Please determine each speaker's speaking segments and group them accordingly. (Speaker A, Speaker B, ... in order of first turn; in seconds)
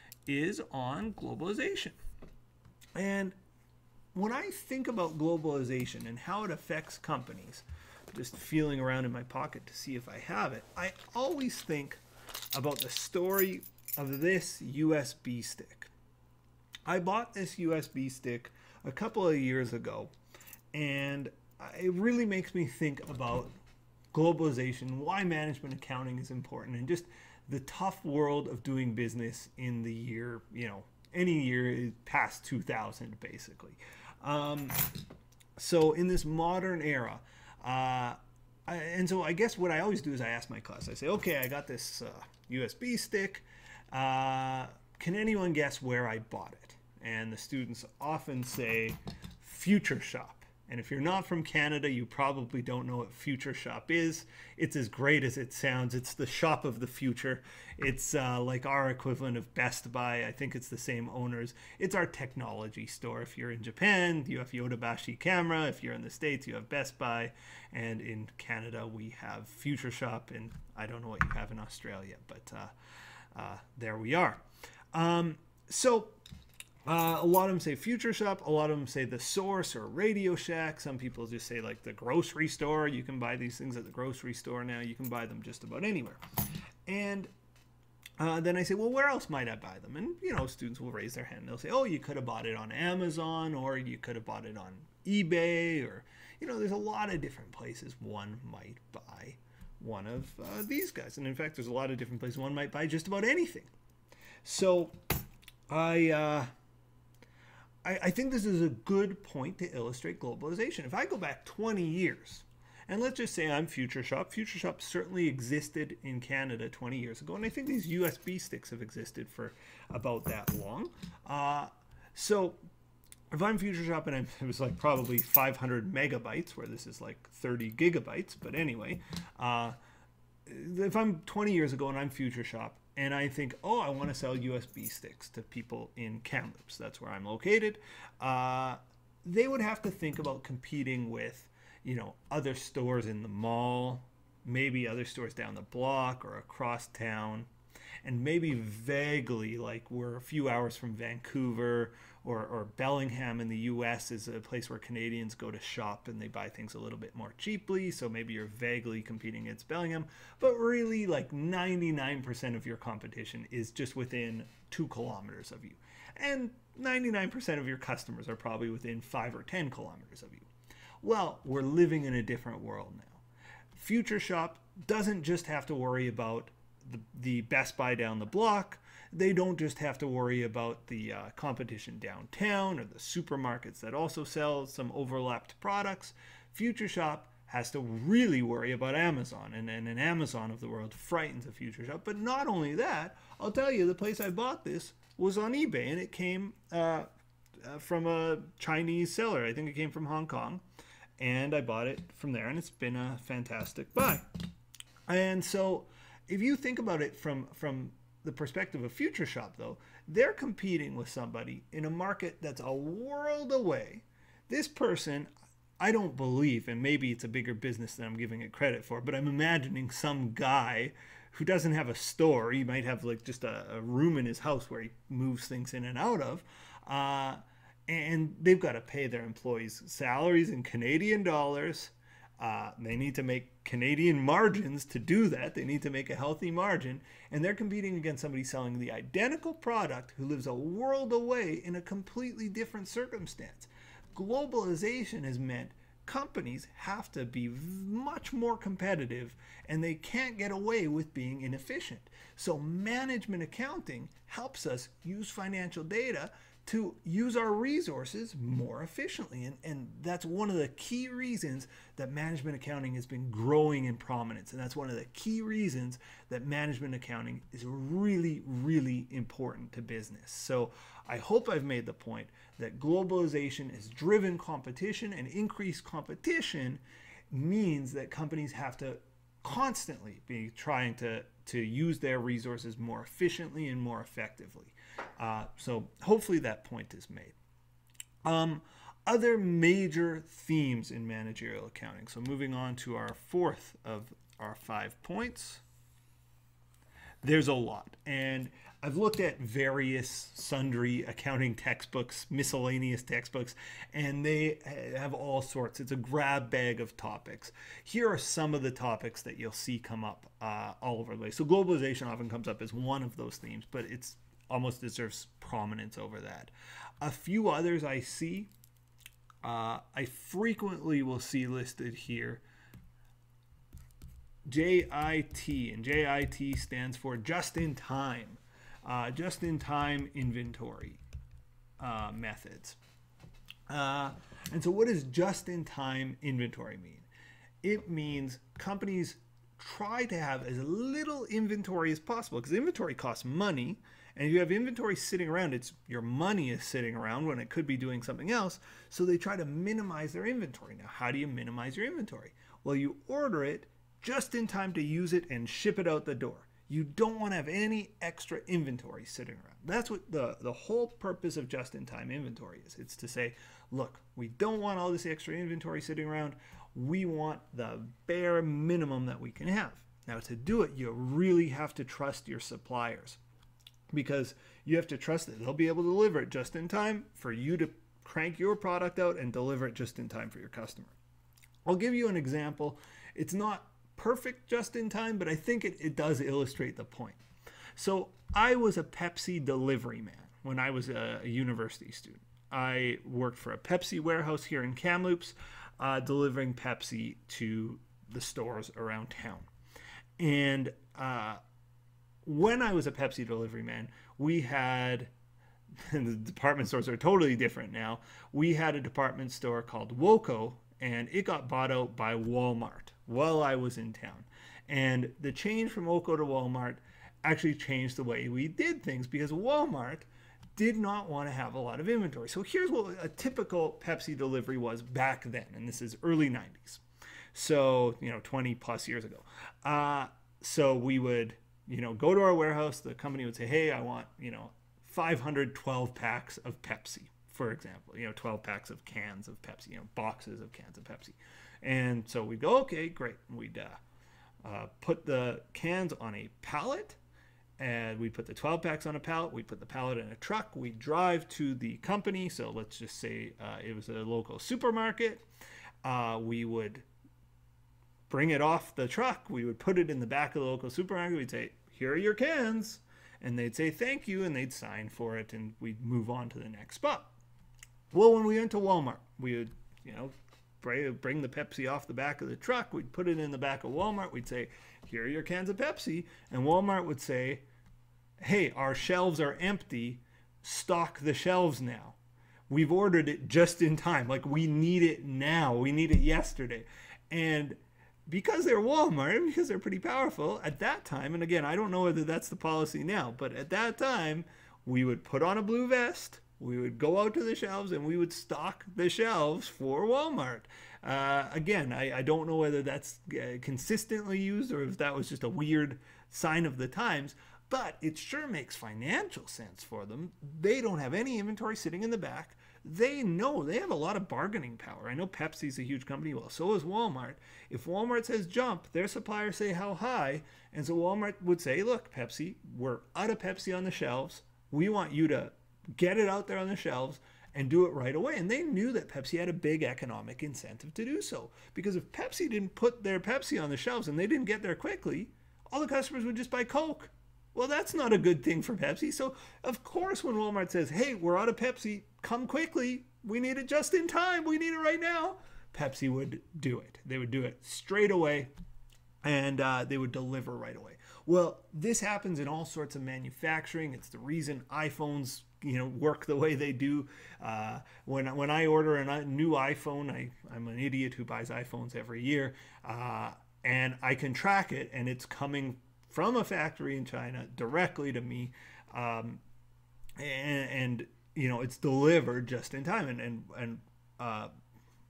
Speaker A: 0.3-1.9, 2.9-3.4, 4.1-12.0, 12.5-15.9, 16.9-20.1, 20.7-23.5, 24.1-35.0, 35.6-72.7, 73.3-74.4, 74.9-76.2, 76.8-86.2, 86.8-87.3, 88.2-103.7, 104.4-105.0, 105.7-106.5, 107.8-122.6, 123.3-129.8, 130.4-147.5, 148.0-170.5, 171.0-173.2, 173.7-197.1, 197.6-200.6, 201.2-204.3, 205.1-287.4, 288.2-295.6, 297.2-318.5, 319.4-322.4, 324.4-331.0, 331.8-332.8, 333.7-337.1, 337.6-373.2, 373.9-380.9, 381.6-387.2, 387.8-399.5, 400.2-401.4, 402.2-405.1, 405.8-426.8, 427.3-443.8, 444.4-447.0, 447.6-455.2, 455.8-456.8, 458.1-467.1, 467.9-477.4, 478.2-482.0, 482.5-548.3, 549.0-569.2, 570.0-574.3